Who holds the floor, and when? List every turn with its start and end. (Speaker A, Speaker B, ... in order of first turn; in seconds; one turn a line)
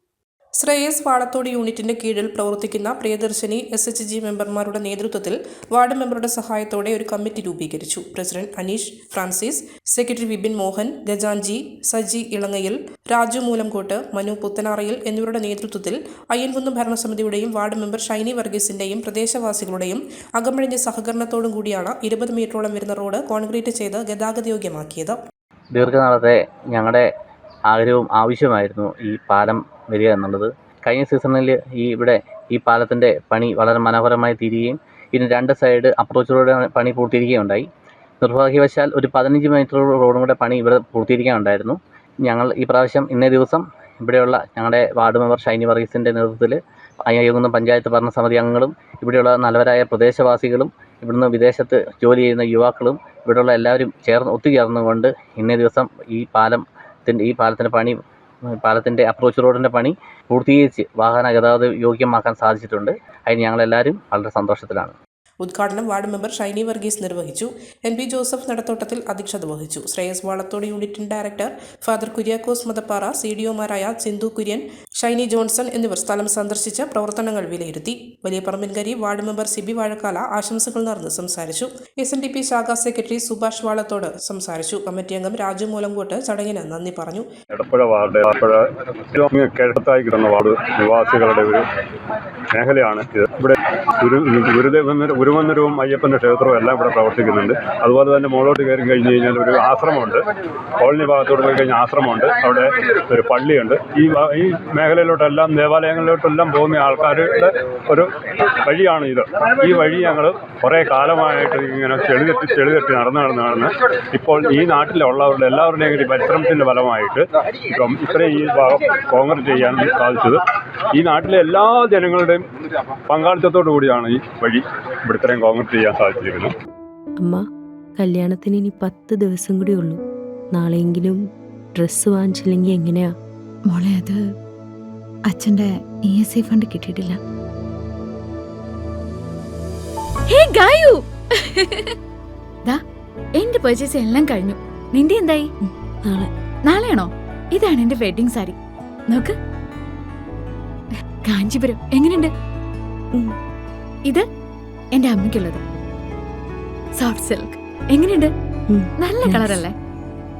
Speaker A: 0.6-25.2
Speaker B: 25.7-27.1
Speaker B: 27.7-37.6
Speaker B: 38.2-46.6
Speaker B: 47.1-57.9
Speaker B: 58.6-64.9
Speaker A: 65.4-87.3
Speaker C: 87.5-91.6
Speaker C: 92.5-100.2
Speaker C: 100.8-108.1
Speaker C: 108.6-120.4
Speaker C: 120.9-122.4
Speaker C: 123.1-126.5
Speaker D: 128.0-130.0
Speaker D: 130.5-131.2
Speaker D: 131.8-133.1
Speaker E: 133.7-134.3
Speaker E: 135.3-137.2
Speaker E: 140.3-141.9
Speaker E: 143.4-145.5
Speaker D: 146.0-146.3
Speaker E: 146.7-148.6
Speaker E: 151.2-152.3
Speaker E: 154.9-155.6
Speaker E: 157.0-158.3
Speaker D: 158.7-159.6
Speaker E: 159.0-159.7